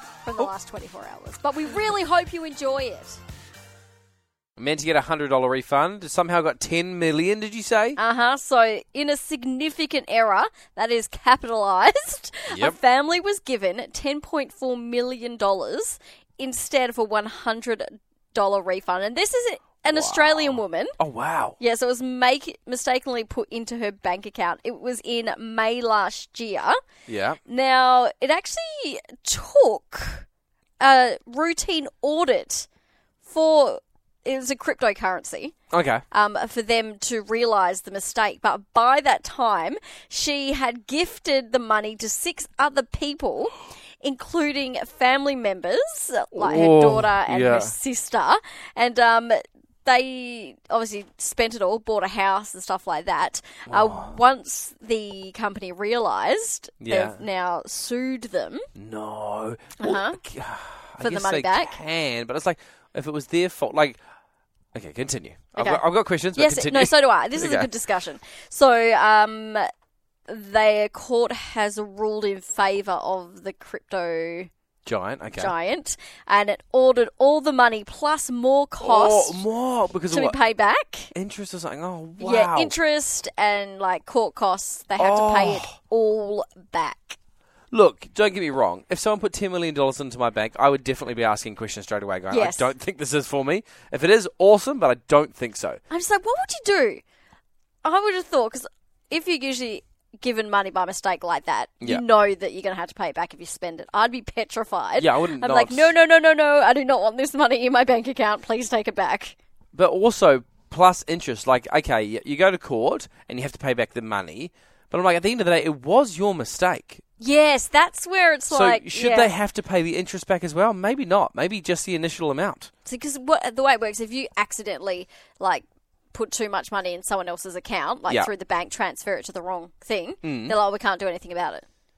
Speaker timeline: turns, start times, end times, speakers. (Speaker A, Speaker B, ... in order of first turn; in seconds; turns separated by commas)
Speaker A: 0.2-3.2, Speaker B: 4.6-8.0, Speaker A: 8.0-21.0, Speaker B: 12.5-12.8, Speaker B: 19.8-21.6, Speaker A: 21.6-26.8, Speaker B: 27.1-27.4, Speaker A: 27.5-30.3, Speaker A: 30.8-32.7, Speaker A: 33.2-35.6, Speaker B: 35.7-36.0, Speaker A: 36.1-58.6, Speaker B: 46.3-47.7, Speaker B: 53.7-54.1, Speaker B: 56.8-57.2, Speaker B: 58.8-64.0, Speaker A: 59.8-60.2, Speaker A: 61.0-61.8, Speaker B: 64.7-67.7, Speaker A: 65.6-65.8, Speaker A: 66.3-69.7, Speaker A: 70.3-74.5, Speaker B: 74.9-75.5, Speaker A: 75.3-79.4, Speaker B: 78.8-80.4, Speaker A: 80.1-81.1, Speaker B: 81.2-82.7, Speaker A: 82.2-87.2, Speaker B: 85.0-85.7, Speaker B: 87.7-95.8, Speaker A: 92.3-92.7, Speaker A: 95.9-97.0, Speaker A: 97.8-109.4, Speaker B: 105.0-105.9, Speaker B: 109.8-117.0, Speaker A: 117.2-119.3, Speaker B: 118.5-122.7, Speaker A: 122.8-131.7, Speaker B: 130.2-130.6